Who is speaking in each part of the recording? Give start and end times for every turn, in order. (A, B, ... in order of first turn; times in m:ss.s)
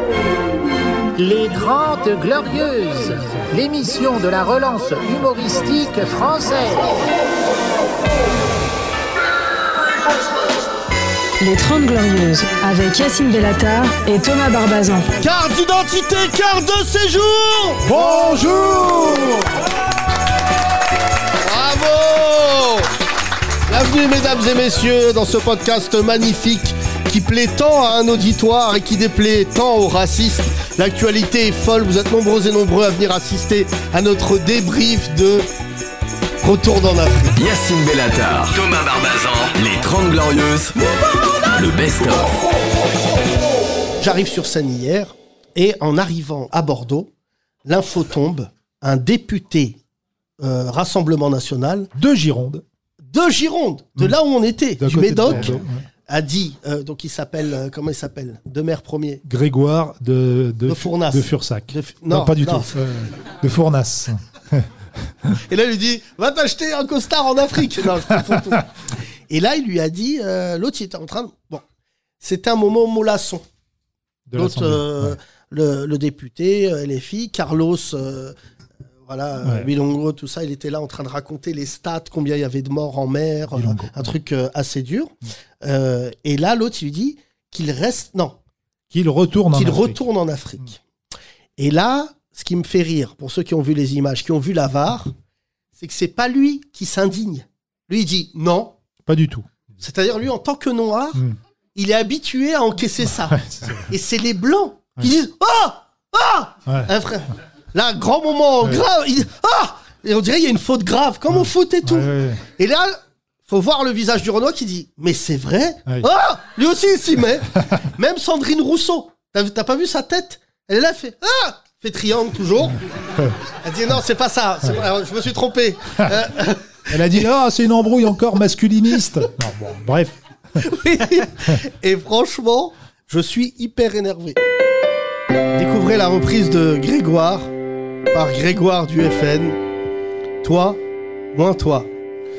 0:01.2-0:07.0 A
0:11.4-0:15.1 B
0:15.2-0:17.8 C
0:17.8-0:19.4 D
0:21.4-0:22.8 C
0:23.7-0:35.5 C
0:36.4-0:37.4 C
0:37.4-0:40.7 E
0:41.5-0:42.4 E
0:44.0-0:47.1 C
0:47.6-0:49.8 C
0:50.4-0:51.9 C
0:51.9-0:52.6 D
0:53.1-0:59.2 C
0:54.8-0:55.8 D
0:59.2-1:04.7 D
1:00.7-1:02.7 C
1:05.4-1:08.7 C
1:09.3-1:11.6 C
1:12.2-1:13.4 C
1:14.3-1:15.2 D
1:14.4-1:18.3 C
1:19.0-1:28.4 C
1:19.4-1:19.7 D
1:23.5-1:24.1 D
1:28.9-1:30.0 D
1:29.5-1:30.8 C
1:31.6-1:35.1 C
1:35.8-1:38.7 C
1:39.1-1:39.5 D
1:39.8-1:41.2 C
1:41.7-2:02.8 C
1:43.3-1:43.9 D
1:51.4-1:52.4 D
2:03.5-2:07.1 C
2:06.9-2:10.2 D
2:10.6-2:14.4 C
2:15.6-2:17.5 C
2:18.1-2:19.6 C
2:20.4-2:20.8 C
2:21.3-2:21.9 C